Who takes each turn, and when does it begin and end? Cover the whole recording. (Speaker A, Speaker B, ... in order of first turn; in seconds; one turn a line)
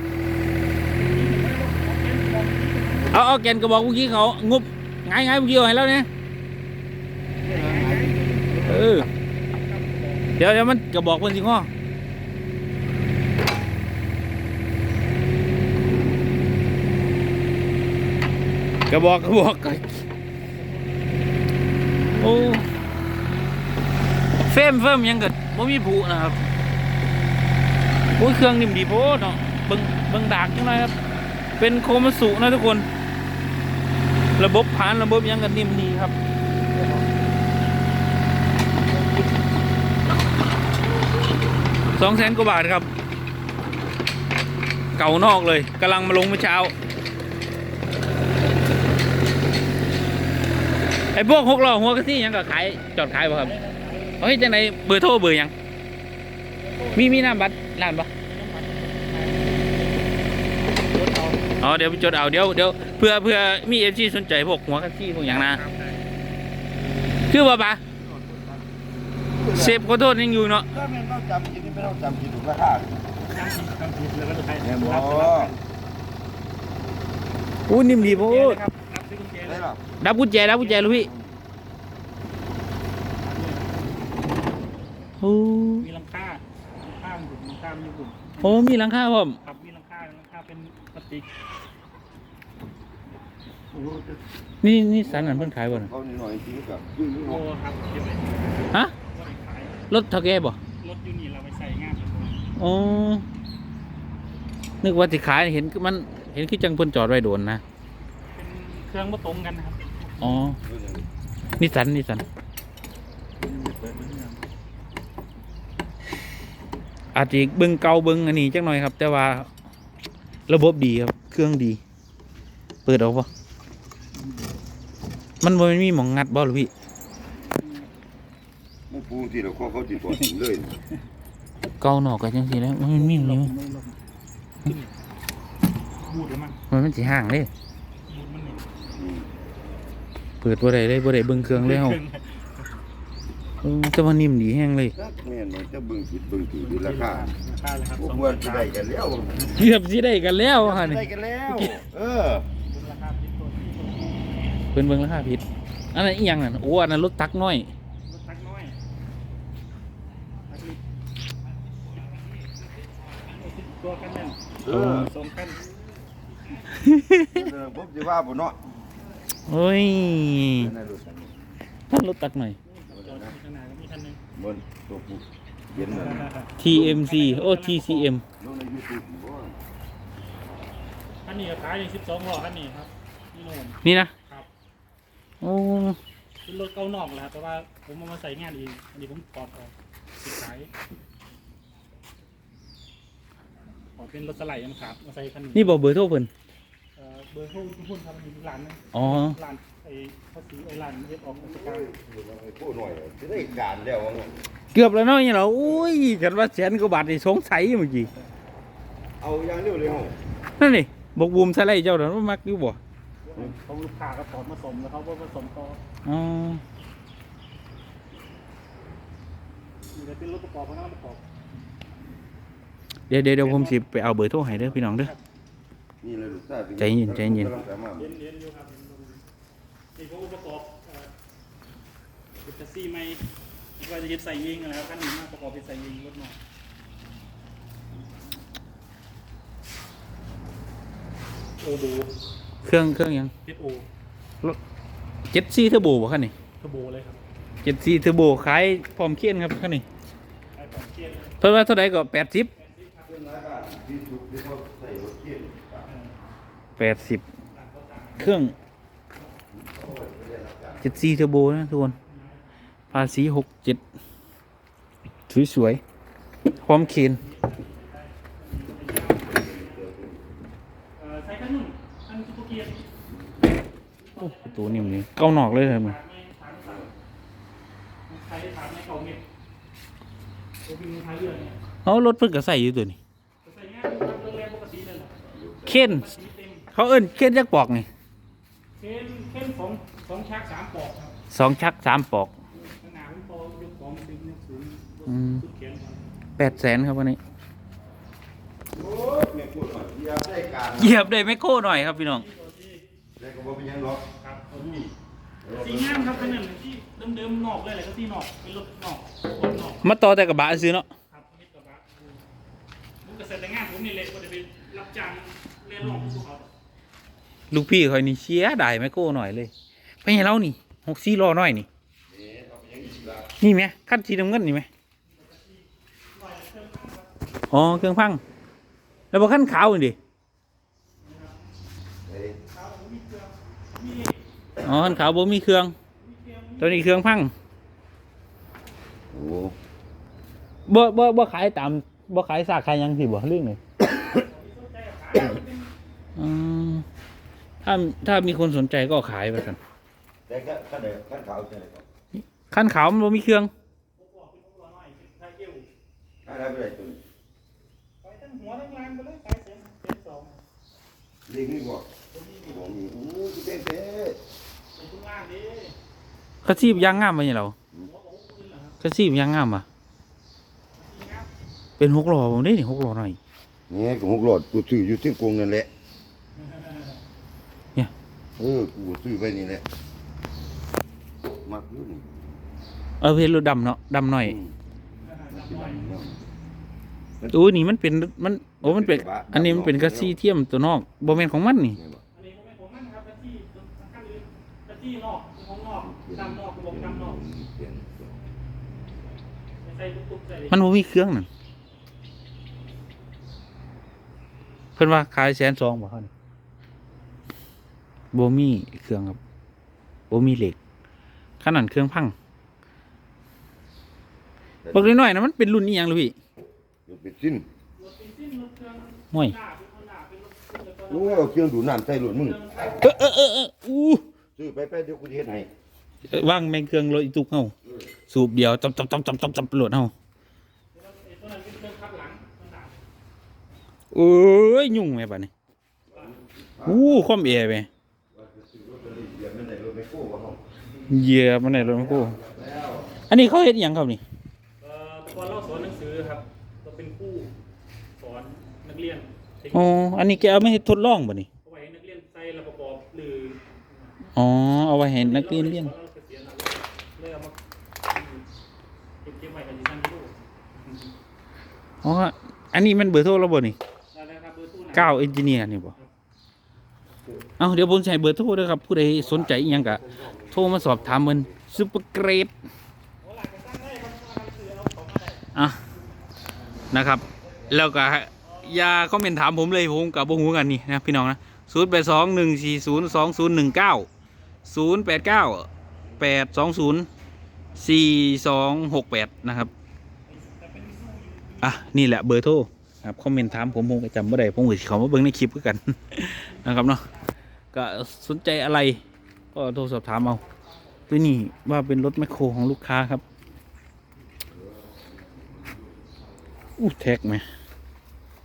Speaker A: 0.9-3.2
Speaker B: 3.1-6.1
Speaker A: 7.4-10.3
Speaker C: 7.4-8.9
Speaker B: 8.6-9.1
Speaker B: 10.4-11.7
Speaker B: 18.9-20.0
Speaker B: 22.2-22.6
Speaker B: 24.4-26.4
Speaker B: 28.1-30.9
Speaker B: 31.6-32.9
Speaker B: 34.4-36.1
Speaker B: 41.9-42.9
Speaker B: 45.0-46.7
Speaker B: 51.1-53.5
Speaker A: 53.4-54.3
Speaker B: 54.2-55.5
Speaker A: 56.4-57.3
Speaker B: 57.0-58.1
Speaker A: 58.2-61.5
Speaker B: 61.6-65.6
Speaker A: 65.3-66.0
Speaker B: 67.3-67.8
Speaker C: 67.9-70.0
Speaker B: 69.5-70.7
Speaker C: 70.7-72.9
Speaker A: 73.2-75.7
Speaker C: 74.6-75.5
Speaker B: 77.7-78.6
Speaker A: 77.8-79.6
Speaker C: 79.4-79.8
Speaker B: 80.0-81.1
Speaker A: 80.5-81.1
Speaker C: 80.8-81.3
Speaker A: 83.2-83.8
Speaker B: 85.2-85.8
Speaker A: 85.8-88.7
Speaker B: 88.4-89.4
Speaker A: 89.4-91.3
Speaker C: 93.7-94.2
Speaker B: 94.6-95.9
Speaker C: 95.0-97.4
Speaker A: 97.2-99.8
Speaker B: 99.9-100.6
Speaker A: 100.8-102.4
Speaker B: 102.6-103.2
Speaker B: 104.8-107.6
Speaker A: 108.3-110.6
Speaker B: 110.2-110.6
Speaker C: 110.6-111.0
Speaker B: 111.6-112.2
Speaker A: 113.4-114.4
Speaker B: 117.1-119.5
Speaker B: 120.5-121.8
Speaker B: 122.8-123.3
Speaker B: 125.4-126.7
Speaker C: 128.9-130.8
Speaker B: 131.8-133.5
Speaker A: 132.9-134.0
Speaker A: 134.6-134.9
Speaker A: 136.0-136.6
Speaker B: 136.7-137.5
Speaker A: 138.1-138.6
Speaker C: 138.9-139.3
Speaker B: 140.4-142.0
Speaker A: 141.4-142.7
Speaker B: 143.6-144.9
Speaker C: 144.9-147.3
Speaker A: 146.6-148.7
Speaker C: 148.0-149.6
Speaker B: 149.5-151.7
Speaker C: 150.6-152.5
Speaker A: 152.7-154.4
Speaker B: 154.7-155.4
Speaker B: 155.9-157.7
Speaker A: 158.1-158.8
Speaker A: 160.5-160.8
Speaker A: 163.0-165.7
Speaker C: 164.6-165.1
Speaker B: 164.7-165.1
Speaker A: 166.5-166.8
Speaker B: 166.7-167.4
Speaker C: 167.3-168.6
Speaker B: 169.5-170.7
Speaker C: 170.6-171.3
Speaker B: 171.9-172.6
Speaker A: 172.6-174.2
Speaker C: 172.9-173.3
Speaker C: 174.3-176.8
Speaker A: 175.8-178.1
Speaker B: 176.6-178.2
Speaker C: 178.4-179.6
Speaker A: 181.2-184.5
Speaker B: 183.8-184.1
Speaker B: 185.4-186.0
Speaker A: 186.4-190.7
Speaker A: 194.0-195.8
Speaker B: 195.5-196.3
Speaker A: 197.0-201.9
Speaker B: 198.9-199.3
Speaker C: 201.3-204.4
Speaker B: 204.7-208.1
Speaker C: 209.2-210.2
Speaker B: 210.6-212.8
Speaker A: 213.2-215.8
Speaker B: 216.0-216.6
Speaker A: 219.9-221.2
Speaker B: 223.1-225.1
Speaker A: 223.4-223.8
Speaker A: 224.5-225.2
Speaker C: 226.0-228.1
Speaker B: 226.8-227.5
Speaker A: 227.9-229.2
Speaker A: 229.9-231.1
Speaker A: 232.4-233.2
Speaker A: 233.8-236.4
Speaker A: 241.6-242.1
Speaker B: 242.6-243.3
Speaker A: 243.4-243.8
Speaker B: 245.3-246.3
Speaker A: 246.6-247.2
Speaker B: 247.6-249.8
Speaker A: 250.6-251.4
Speaker B: 251.4-252.5
Speaker A: 252.5-253.1
Speaker C: 253.0-255.9
Speaker A: 255.9-256.1
Speaker B: 256.8-257.2
Speaker A: 257.5-258.4
Speaker B: 258.2-258.5
Speaker C: 259.5-261.0
Speaker B: 260.8-261.9
Speaker A: 262.0-262.4
Speaker B: 262.9-263.8
Speaker B: 265.3-265.8
Speaker A: 266.4-269.9
Speaker B: 266.6-267.2
Speaker C: 269.2-270.3
Speaker A: 271.0-272.9
Speaker A: 274.0-276.9
Speaker B: 274.2-275.9
Speaker A: 278.1-279.2
Speaker A: 280.6-281.6
Speaker B: 281.8-283.0
Speaker A: 283.4-286.6
Speaker C: 285.3-285.9
Speaker B: 285.7-286.1
Speaker B: 286.7-287.9
Speaker A: 288.8-291.2
Speaker B: 291.3-292.3
Speaker A: 292.8-296.1
Speaker B: 295.1-295.4
Speaker B: 296.4-297.2
Speaker C: 298.7-301.0
Speaker B: 300.8-302.2
Speaker A: 301.9-302.8
Speaker C: 303.2-304.0
Speaker A: 304.2-304.9
Speaker C: 305.4-306.4
Speaker A: 305.5-309.8
Speaker B: 309.8-310.9
Speaker A: 311.1-312.2
Speaker A: 313.0-316.5
Speaker B: 317.5-319.5
Speaker B: 320.0-321.7
Speaker C: 322.1-323.3
Speaker B: 323.4-324.7
Speaker A: 325.1-327.1
Speaker B: 327.5-328.2
Speaker B: 329.1-330.0
Speaker A: 331.0-331.4
Speaker C: 332.0-332.4
Speaker A: 332.4-334.2
Speaker C: 334.6-335.0
Speaker B: 334.6-335.7
Speaker A: 335.9-337.0
Speaker B: 336.6-337.3
Speaker C: 339.1-339.5
Speaker B: 340.7-343.6
Speaker A: 344.1-345.7
Speaker B: 346.2-346.8
Speaker B: 347.6-349.6
Speaker C: 350.3-351.9
Speaker B: 352.5-353.5
Speaker A: 353.9-355.7
Speaker C: 356.2-357.0
Speaker A: 358.0-360.4
Speaker C: 361.3-361.9
Speaker A: 362.1-362.6
Speaker C: 362.4-364.2
Speaker A: 364.8-365.8
Speaker B: 366.4-367.5
Speaker A: 366.5-367.1
Speaker A: 367.8-368.8
Speaker B: 368.8-369.6
Speaker A: 370.8-371.3
Speaker B: 371.8-373.2
Speaker C: 373.7-375.7
Speaker A: 376.4-377.0
Speaker C: 378.4-379.6
Speaker C: 381.4-382.2
Speaker B: 383.0-384.4
Speaker C: 384.2-384.5
Speaker A: 385.0-385.9
Speaker C: 385.3-386.2
Speaker C: 387.2-387.4
Speaker B: 387.3-391.8
Speaker C: 388.6-390.2
Speaker C: 391.8-392.0
Speaker A: 392.1-397.2
Speaker C: 395.8-398.1
Speaker A: 399.6-400.6
Speaker B: 400.5-401.3
Speaker B: 404.8-406.1
Speaker B: 408.1-409.2
Speaker B: 410.1-410.6
Speaker B: 411.4-412.1
Speaker C: 414.6-414.9
Speaker B: 414.7-416.1
Speaker C: 416.9-417.5
Speaker A: 417.8-421.4
Speaker C: 420.9-422.7
Speaker A: 422.2-422.8
Speaker B: 422.8-424.0
Speaker C: 424.4-425.5
Speaker B: 426.1-427.5
Speaker B: 428.1-429.9
Speaker A: 430.7-432.8
Speaker B: 433.9-435.3
Speaker C: 435.9-437.4
Speaker B: 436.6-437.7
Speaker C: 438.1-440.4
Speaker B: 440.9-442.1
Speaker C: 441.6-442.9
Speaker B: 443.1-444.0
Speaker A: 444.6-447.3
Speaker A: 448.0-450.1
Speaker B: 449.5-451.3
Speaker A: 451.4-453.9
Speaker B: 454.1-455.7
Speaker A: 455.0-457.4
Speaker A: 457.9-458.2
Speaker A: 459.0-460.9
Speaker B: 461.8-463.6
Speaker A: 463.9-465.1
Speaker B: 464.7-465.7
Speaker B: 467.4-469.8
Speaker C: 468.9-471.5
Speaker B: 470.3-472.3
Speaker A: 473.0-475.3
Speaker B: 476.7-483.9
Speaker A: 478.2-478.7
Speaker B: 484.4-485.5
Speaker B: 486.0-486.9
Speaker B: 487.6-489.5
Speaker A: 490.1-491.6
Speaker B: 491.4-496.8
Speaker A: 496.2-497.1
Speaker B: 497.5-498.8
Speaker B: 499.3-500.2
Speaker A: 500.0-501.5
Speaker B: 500.9-503.0
Speaker C: 504.3-505.7
Speaker B: 506.6-507.2